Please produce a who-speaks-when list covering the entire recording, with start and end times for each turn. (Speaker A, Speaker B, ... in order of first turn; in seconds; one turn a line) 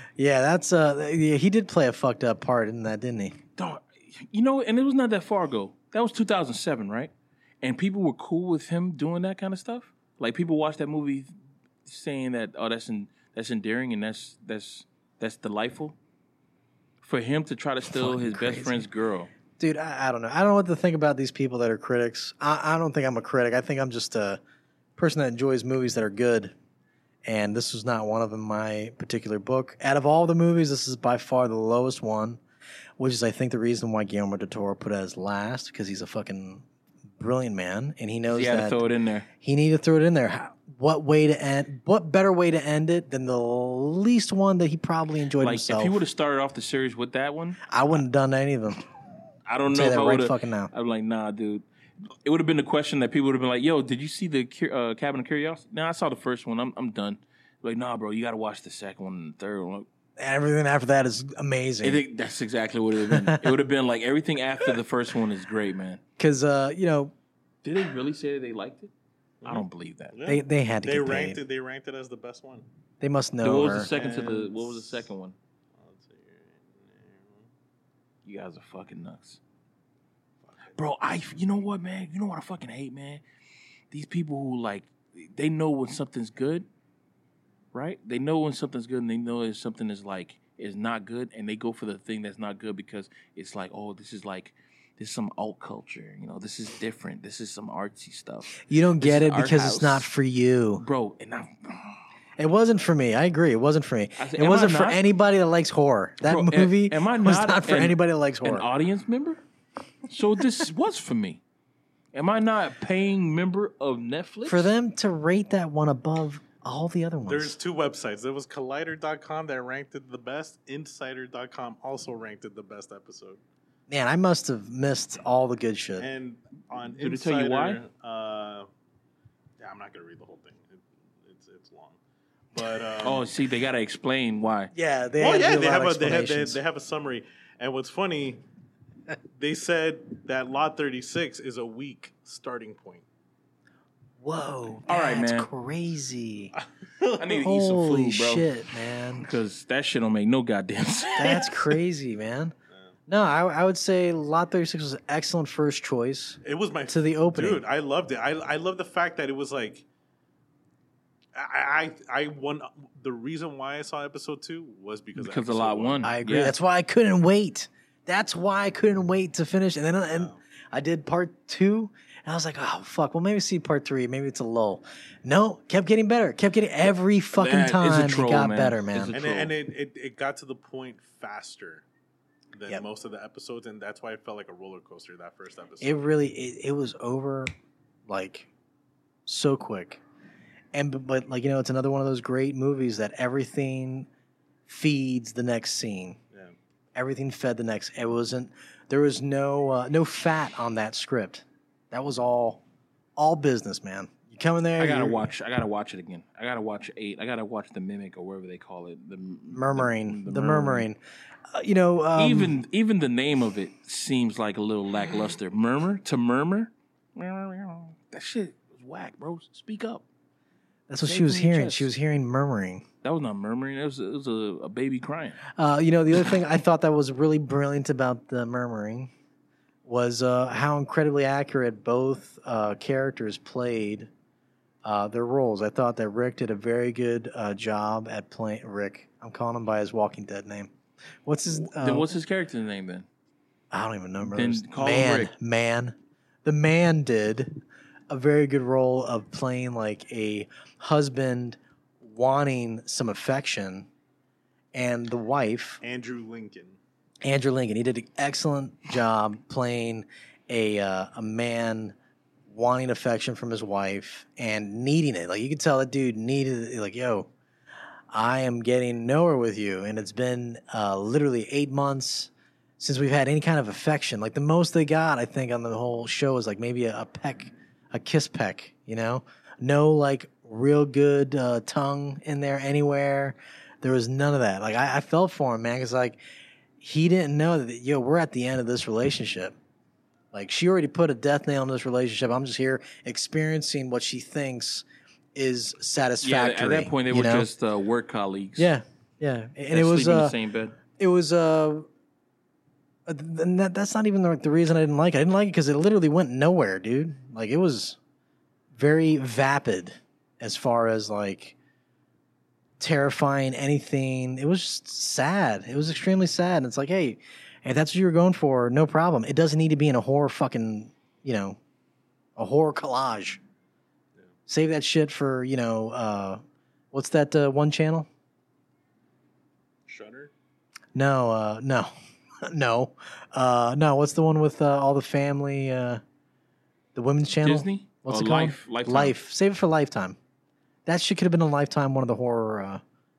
Speaker A: 0.2-3.4
Speaker B: 3.6-11.3
Speaker B: 11.8-16.0
Speaker B: 17.0-19.3
Speaker A: 17.9-18.9
Speaker A: 19.6-24.4
Speaker A: 25.0-26.5
Speaker A: 27.2-32.4
Speaker A: 33.0-36.6
Speaker A: 37.2-38.8
Speaker B: 38.3-39.3
Speaker A: 39.4-46.0
Speaker B: 45.4-47.6
Speaker A: 47.7-48.8
Speaker B: 49.5-51.6
Speaker A: 49.7-50.7
Speaker B: 52.2-59.9
Speaker A: 60.2-62.0
Speaker B: 61.8-66.0
Speaker A: 63.0-63.6
Speaker A: 66.2-67.1
Speaker B: 67.6-68.9
Speaker C: 69.4-72.7
Speaker B: 69.4-70.1
Speaker A: 70.3-71.4
Speaker A: 73.0-73.9
Speaker B: 73.4-75.4
Speaker C: 73.9-75.0
Speaker C: 75.8-77.5
Speaker B: 78.2-79.4
Speaker C: 80.5-80.8
Speaker B: 80.8-83.2
Speaker B: 83.9-86.7
Speaker B: 87.7-100.1
Speaker A: 98.6-100.8
Speaker B: 100.8-102.0
Speaker A: 102.4-108.7
Speaker B: 104.2-105.0
Speaker B: 106.2-109.4
Speaker B: 110.1-111.4
Speaker B: 112.1-114.7
Speaker A: 114.5-117.6
Speaker C: 117.3-123.4
Speaker A: 123.9-126.1
Speaker C: 126.0-128.7
Speaker B: 126.9-127.8
Speaker C: 129.6-132.0
Speaker C: 132.5-133.2
Speaker B: 133.0-134.7
Speaker A: 134.7-136.6
Speaker C: 135.2-138.4
Speaker C: 139.4-143.1
Speaker A: 144.2-146.5
Speaker B: 144.9-145.5
Speaker C: 146.6-147.1
Speaker B: 147.2-148.5
Speaker A: 147.3-149.3
Speaker B: 149.2-151.7
Speaker A: 151.2-152.5
Speaker A: 153.1-157.6
Speaker C: 156.4-159.8
Speaker C: 161.3-166.1
Speaker B: 165.2-166.5
Speaker A: 166.0-179.2
Speaker C: 170.1-170.4
Speaker B: 177.3-179.5
Speaker C: 179.1-181.8
Speaker C: 182.6-185.9
Speaker A: 185.8-187.5
Speaker A: 188.1-188.5
Speaker A: 189.3-190.0
Speaker A: 190.7-194.1
Speaker A: 194.7-196.2
Speaker A: 196.9-202.6
Speaker A: 203.2-205.2
Speaker B: 204.8-210.9
Speaker A: 209.5-211.0
Speaker A: 211.5-212.6
Speaker B: 212.2-220.0
Speaker A: 220.9-222.9
Speaker B: 221.0-221.9
Speaker B: 223.0-225.4
Speaker A: 225.6-229.1
Speaker A: 229.8-234.1
Speaker A: 234.8-240.7
Speaker A: 241.3-242.2
Speaker B: 241.5-243.1
Speaker A: 243.7-253.9
Speaker B: 244.3-245.3
Speaker A: 254.7-255.8
Speaker C: 255.8-256.8
Speaker A: 257.2-261.9
Speaker A: 262.5-267.3
Speaker A: 268.1-286.2
Speaker A: 286.8-289.5
Speaker A: 290.3-297.5
Speaker B: 296.2-298.8
Speaker A: 298.6-300.4
Speaker B: 299.7-300.8
Speaker A: 300.9-301.9
Speaker A: 303.1-308.0
Speaker A: 308.7-311.6
Speaker A: 312.8-321.6
Speaker A: 322.4-323.4
Speaker A: 324.5-326.4
Speaker A: 326.9-328.1
Speaker C: 329.9-330.3
Speaker A: 330.9-331.9
Speaker A: 332.4-336.0
Speaker A: 336.9-340.2
Speaker B: 337.4-339.2
Speaker A: 340.9-342.8